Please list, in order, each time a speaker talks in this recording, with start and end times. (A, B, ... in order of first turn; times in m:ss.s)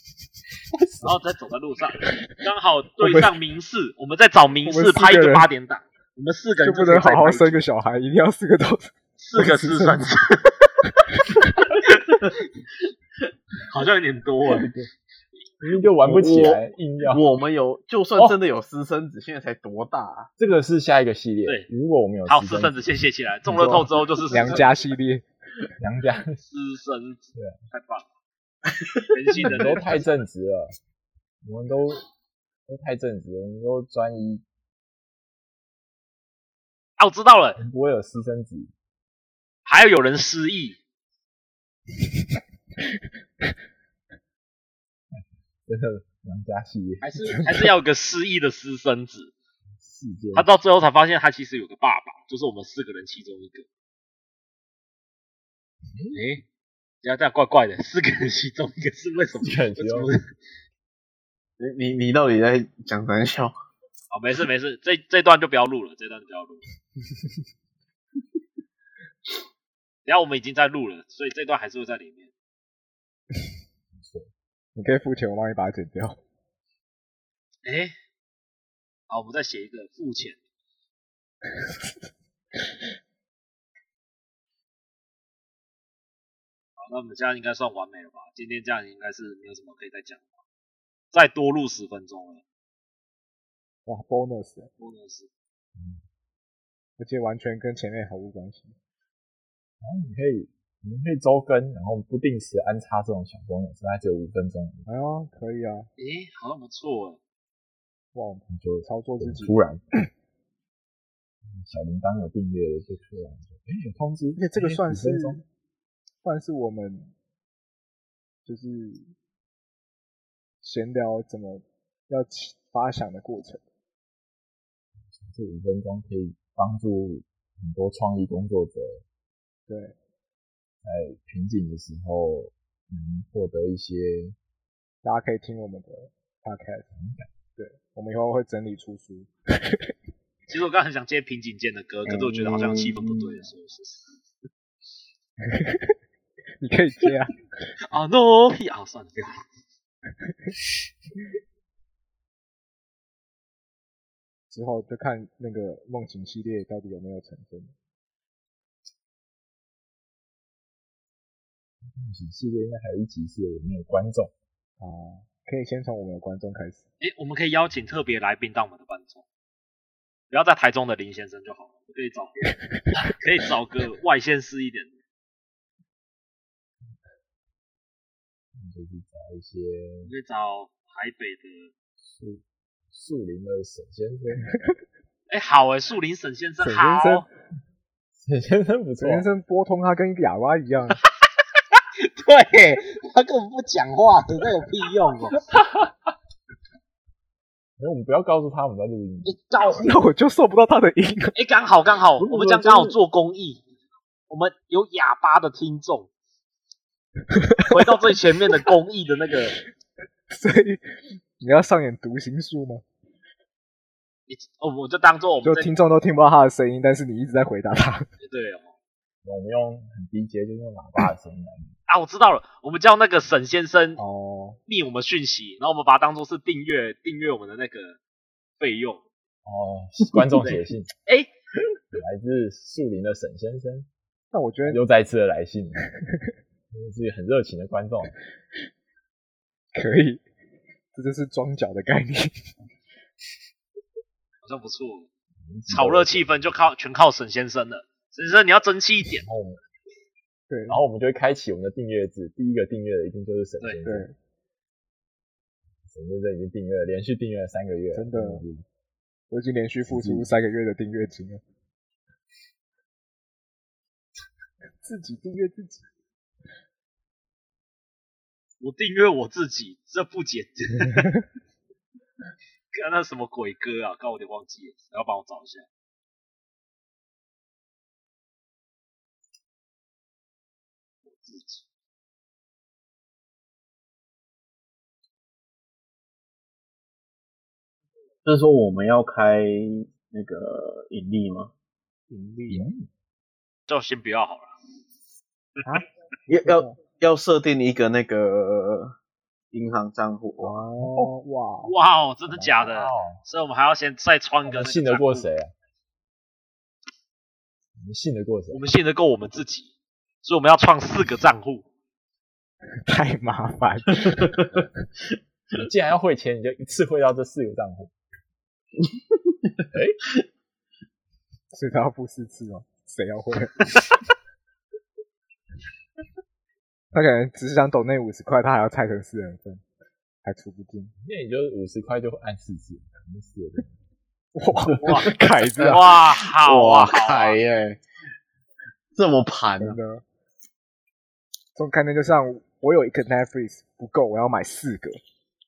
0:01.0-0:07.6 A
0:03.0-0:03.4 B
0:04.6-0:05.5 B
0:06.6-0:10.1 B
0:09.2-0:10.7 A
0:11.7-0:12.3 A
0:13.7-0:14.7 A
0:14.5-0:14.9 C
0:15.6-0:17.3 D
0:16.0-0:20.3 C
0:20.4-0:22.9 D
0:22.3-0:24.8 A
0:23.5-0:23.9 C
0:24.3-0:25.3 B
0:25.8-0:26.4 D
0:26.5-0:28.1 A
0:29.1-0:30.1 A
0:29.4-0:30.8 D
0:31.4-0:32.0 D
0:32.7-0:34.4 D
0:37.0-0:37.6 A
0:37.6-0:38.7 D
0:39.6-0:40.8 A
0:45.1-0:47.1 D
0:47.0-0:49.3 A
0:49.8-0:50.5 D
0:50.3-0:53.7 A
0:55.9-0:56.2 D
0:56.1-0:56.4 A
0:57.0-1:00.2 A
0:59.4-1:00.1 D
1:01.6-1:03.5 C
1:04.1-1:06.6 A
1:10.0-1:12.3 A
1:13.9-1:14.3 D
1:14.8-1:16.2 B
1:17.6-1:17.9 A
1:19.1-1:20.4 A
1:26.8-1:30.3 A
1:31.1-1:32.4 A
1:33.9-1:34.7 B
1:34.8-1:35.3 A
1:35.8-1:36.0 D
1:37.0-1:38.8 B
1:39.8-1:44.9 D
1:44.9-1:45.9 B
1:46.0-1:47.2 A
1:48.1-1:49.6 B
1:48.5-1:49.8 D
1:51.5-1:55.4 D
1:54.4-1:55.4 B
1:56.2-1:57.1 B
1:58.5-1:59.1 B
2:00.6-2:03.6 B
2:05.2-2:09.0 D
2:09.7-2:10.0 B
2:10.8-2:14.4 D
2:15.0-2:16.9 B
2:17.0-2:17.3 D
2:17.6-2:19.9 B
2:20.5-2:24.1 A
2:22.1-2:23.1 C
2:25.4-2:26.0 B
2:26.6-2:27.5 B
2:27.9-2:29.4 A
2:34.5-2:37.7 B
2:41.9-2:44.3 D
2:44.8-2:46.8 B
2:47.0-2:49.2 A
2:50.3-2:54.9 A
2:58.6-3:00.1 D
3:00.1-3:01.7 A
3:02.1-3:04.5 D
3:05.3-3:07.3 A
3:06.6-3:07.3 B
3:08.2-3:09.3 D
3:09.0-3:11.0 B
3:12.0-3:15.4 A
3:17.8-3:19.4 D
3:19.2-3:19.9 A
3:19.7-3:21.4 B
3:21.4-3:23.6 A
3:22.2-3:23.0 D
3:24.3-3:26.1 A
3:27.4-3:27.7 B
3:27.7-3:29.6 A
3:30.3-3:30.9 B
3:31.4-3:32.8 B
3:34.3-3:35.7 A
3:35.4-3:38.1 B
3:38.2-3:38.7 A
3:39.2-3:41.7 D
3:41.9-3:44.0 A
3:44.0-3:44.6 B
3:44.7-3:48.0 A
3:48.6-3:49.0 A
3:49.4-3:50.9 D
3:50.2-3:51.3 A
3:51.9-3:53.9 D
3:54.3-3:54.8 B
3:54.7-3:55.9 D
3:56.7-3:58.2 D
3:59.8-4:00.2 B
4:00.9-4:02.4 B
4:04.4-4:05.1 A
4:05.4-4:06.2 D
4:05.7-4:09.3 A
4:09.2-4:09.6 D
4:10.5-4:10.8 B
4:10.7-4:14.1 D
4:13.8-4:14.2 B
4:15.9-4:18.6 D
4:17.9-4:18.4 B
4:19.3-4:21.4 B
4:19.8-4:20.3 D
4:24.8-4:25.9 B
4:28.6-4:31.1 A
4:32.7-4:35.7 A
4:41.1-4:41.6 A
4:48.2-4:51.5 C
4:52.1-4:52.7 B
4:52.5-4:52.9 D
4:53.7-4:54.5 A
4:56.3-4:59.0 C
4:56.4-4:56.8 B
4:59.5-5:00.6 C
5:00.4-5:01.7 B
5:00.8-5:01.1 D
5:01.6-5:05.3 A
5:02.3-5:03.2 D
5:04.4-5:05.5 D
5:07.8-5:08.7 D
5:08.5-5:11.7 A
5:12.8-5:14.7 B
5:15.5-5:17.9 D
5:19.7-5:20.0 D
5:21.5-5:23.7 B
5:26.9-5:29.6 B
5:30.2-5:30.9 B
5:31.0-5:33.8 D
5:34.4-5:35.9 B
5:34.8-5:37.4 A
5:35.6-5:37.8 C
5:39.0-5:39.8 C
5:39.6-5:40.0 B
5:41.6-5:45.0 B